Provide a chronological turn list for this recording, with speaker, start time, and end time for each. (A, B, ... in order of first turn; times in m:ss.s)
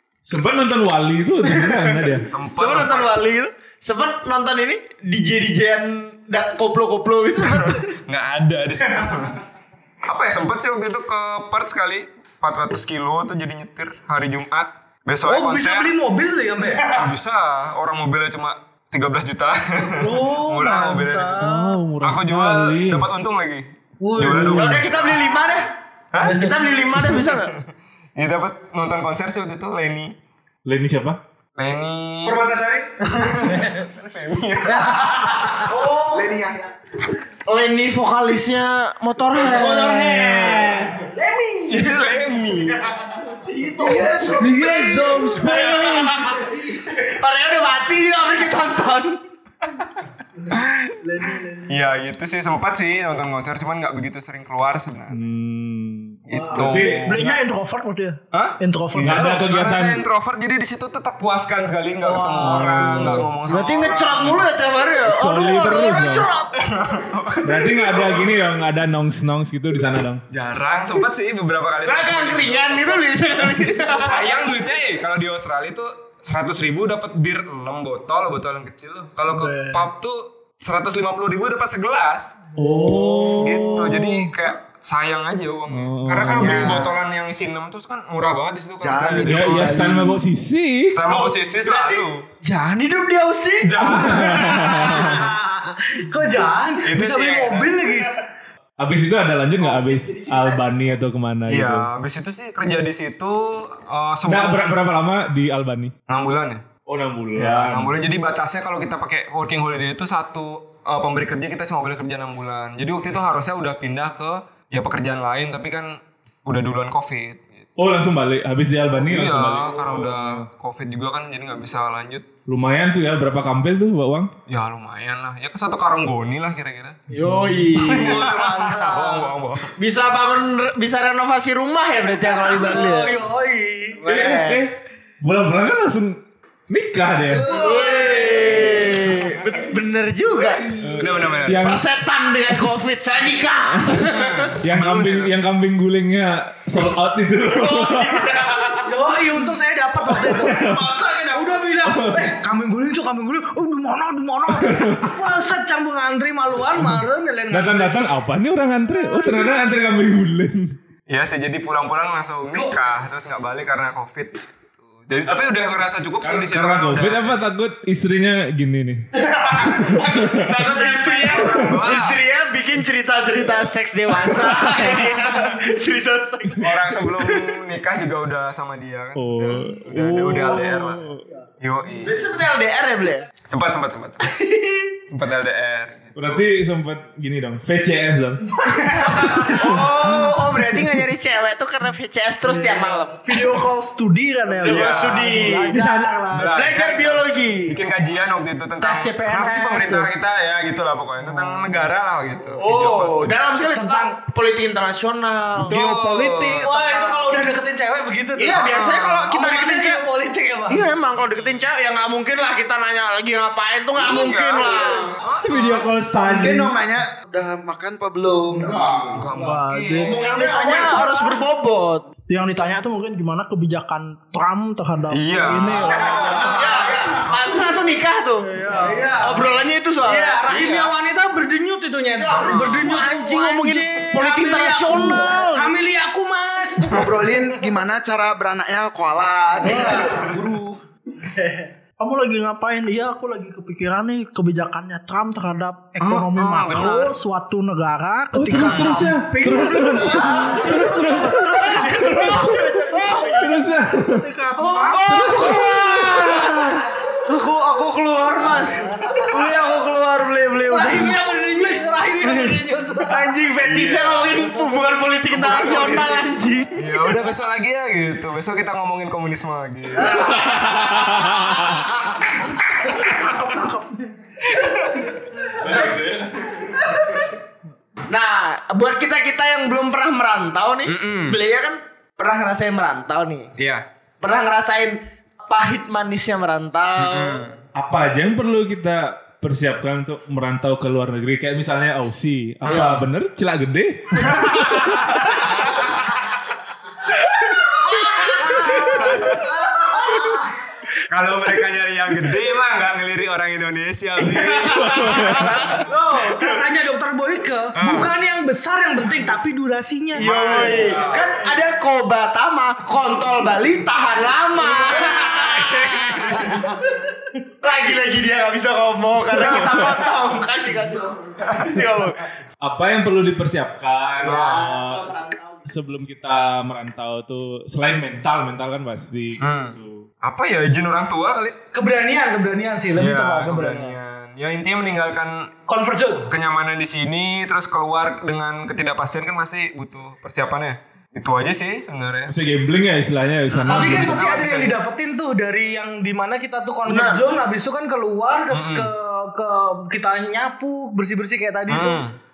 0:00.3-0:02.3 A
0:01.5-0:07.9 B
0:02.3-0:03.2 C
0:07.5-0:09.4 C
0:10.0-0:16.0 C
0:15.3-0:17.0 D
0:16.8-0:21.5 C
0:20.0-0:21.8 D
0:21.4-0:23.1 A
0:22.0-0:25.2 C
0:24.0-0:24.8 D
0:24.3-0:24.6 A
0:24.5-0:27.5 B
0:26.1-0:27.6 C
0:26.2-0:26.7 D
0:28.2-0:30.2 C
0:30.7-0:31.2 A
0:31.6-0:35.2 C
0:32.2-0:32.9 D
0:33.4-0:33.9 D
0:34.7-0:35.7 D
0:35.6-0:36.3 B
0:35.9-0:36.7 E
0:37.5-0:40.9 B
0:39.4-0:42.2 F
0:39.7-0:40.6 D
0:41.7-0:42.8 C
0:43.1-0:45.4 F
0:43.8-0:45.7 E
0:43.8-0:49.2 B
0:50.5-0:51.0 C
0:51.0-0:51.8 F
0:51.7-0:55.2 C
0:55.1-0:57.4 A
0:56.3-0:57.3 C
0:56.4-0:59.3 F
0:58.3-1:04.5 C
0:59.0-1:00.0 A
1:02.0-1:02.9 D
1:02.3-1:03.4 A
1:03.4-1:06.6 B
1:05.0-1:06.3 A
1:06.6-1:08.4 C
1:07.4-1:10.2 A
1:10.3-1:22.4 C
1:11.8-1:14.4 B
1:19.3-1:19.9 F
1:22.6-1:24.2 A
1:22.6-1:24.0 F
1:23.3-1:29.9 C
1:25.7-1:26.8 A
1:26.3-1:27.0 E
1:28.8-1:30.2 E
1:29.3-1:31.0 A
1:30.9-1:32.3 C
1:31.1-1:34.9 B
1:33.6-1:34.7 C
1:33.8-1:35.3 A
1:34.6-1:38.2 D
1:36.8-1:38.0 C
1:38.8-1:41.9 A
1:39.7-1:40.5 F
1:41.5-1:44.8 C
1:44.3-1:46.0 A
1:46.1-1:46.7 C
1:46.9-1:48.0 A
1:47.4-1:57.7 C
1:57.8-2:00.5 A
1:59.1-2:02.3 C
2:02.5-2:04.3 A
2:04.5-2:07.0 C
2:07.1-2:07.7 A
2:07.1-2:08.4 B
2:07.7-2:09.7 C
2:07.9-2:09.3 D
2:09.8-2:13.2 B
2:12.2-2:14.0 D
2:14.0-2:14.7 B
2:14.1-2:17.6 A
2:17.3-2:18.8 D
2:17.4-2:20.8 B
2:20.8-2:21.8 A
2:21.0-2:21.8 C
2:21.5-2:24.5 B
2:23.7-2:24.1 A
2:24.1-2:25.4 C
2:24.6-2:28.3 A
2:27.4-2:28.9 B
2:28.8-2:38.2 D
2:30.1-2:30.9 A
2:30.8-2:31.6 B
2:31.8-2:32.3 A
2:34.5-2:35.1 A
2:36.9-2:40.8 A
2:41.1-2:44.5 C
2:45.0-2:47.4 C
2:46.2-2:49.1 A
2:49.2-2:57.4 B
2:49.7-2:50.5 A
2:49.9-2:51.7 D
2:51.5-2:52.2 C
2:54.4-2:54.9 A
2:56.6-3:01.1 C
2:59.2-3:01.2 A
3:01.6-3:02.2 C
3:02.0-3:03.3 B
3:03.4-3:04.4 C
3:04.4-3:04.9 B
3:05.1-3:06.4 C
3:06.2-3:08.4 A
3:08.7-3:09.3 F
3:09.0-3:09.9 A
3:09.4-3:13.4 B
3:12.4-3:16.5 F
3:14.6-3:17.8 B
3:14.6-3:15.7 C
3:16.3-3:23.4 C
3:18.8-3:20.0 D
3:22.6-3:25.8 B
3:23.7-3:24.1 D
3:25.6-3:26.7 C
3:25.7-3:27.4 F
3:26.6-3:30.8 D
3:28.4-3:30.0 B
3:30.7-3:35.2 B
3:34.0-3:35.9 C
3:35.4-3:36.7 F
3:35.5-3:39.2 E
3:39.1-3:40.3 C
3:39.3-3:41.4 F
3:40.0-3:42.1 B
3:42.3-3:46.5 F
3:45.1-3:46.6 C
3:46.0-3:47.2 D
3:46.1-3:48.5 B
3:48.5-3:49.2 F
3:48.8-3:57.0 D
3:49.2-3:50.4 B
3:50.5-3:50.9 C
3:52.2-3:55.7 B
3:52.3-3:53.0 C
3:56.9-4:00.8 E
3:59.6-4:00.3 D
3:59.6-4:00.4 F
4:01.4-4:15.4 F
4:06.0-4:07.2 C
4:08.4-4:14.3 A
4:08.5-4:09.1 B
4:10.4-4:13.6 B
4:14.6-4:15.0 D
4:14.9-4:21.2 B
4:15.0-4:16.5 A
4:19.0-4:19.3 D
4:20.7-4:23.3 D
4:23.0-4:26.9 B
4:23.6-4:24.5 C
4:25.3-4:26.2 C
4:26.7-4:30.4 C
4:30.1-4:31.1 B
4:30.1-4:31.9 A
4:31.8-4:32.2 B
4:32.6-4:34.2 F
4:35.6-4:36.6 A
4:38.1-4:43.5 B
4:40.8-4:41.4 C
4:43.6-4:43.8 C
4:44.2-4:47.4 B
4:47.0-4:47.6 C
4:47.8-4:55.3 A
4:52.6-4:53.1 C
4:57.8-4:59.4 B
4:58.6-4:59.4 C
4:58.6-4:59.0 D
5:01.1-5:05.8 C
5:04.5-5:05.6 A
5:05.2-5:05.8 B
5:05.8-5:10.3 D
5:07.8-5:08.1 C
5:10.2-5:16.8 B
5:10.2-5:11.3 C
5:15.0-5:16.6 C
5:17.6-5:22.3 B
5:19.4-5:20.0 C
5:22.6-5:30.1 A
5:24.2-5:25.7 B
5:24.2-5:24.7 C
5:29.4-5:31.6 C
5:31.7-5:34.0 D
5:33.0-5:35.5 C
5:35.7-5:36.3 D
5:36.3-5:42.5 C
5:42.3-5:44.4 A
5:43.5-5:44.8 C
5:43.7-5:52.0 D
5:46.9-5:47.2 B
5:48.5-5:48.9 C
5:51.7-5:52.2 C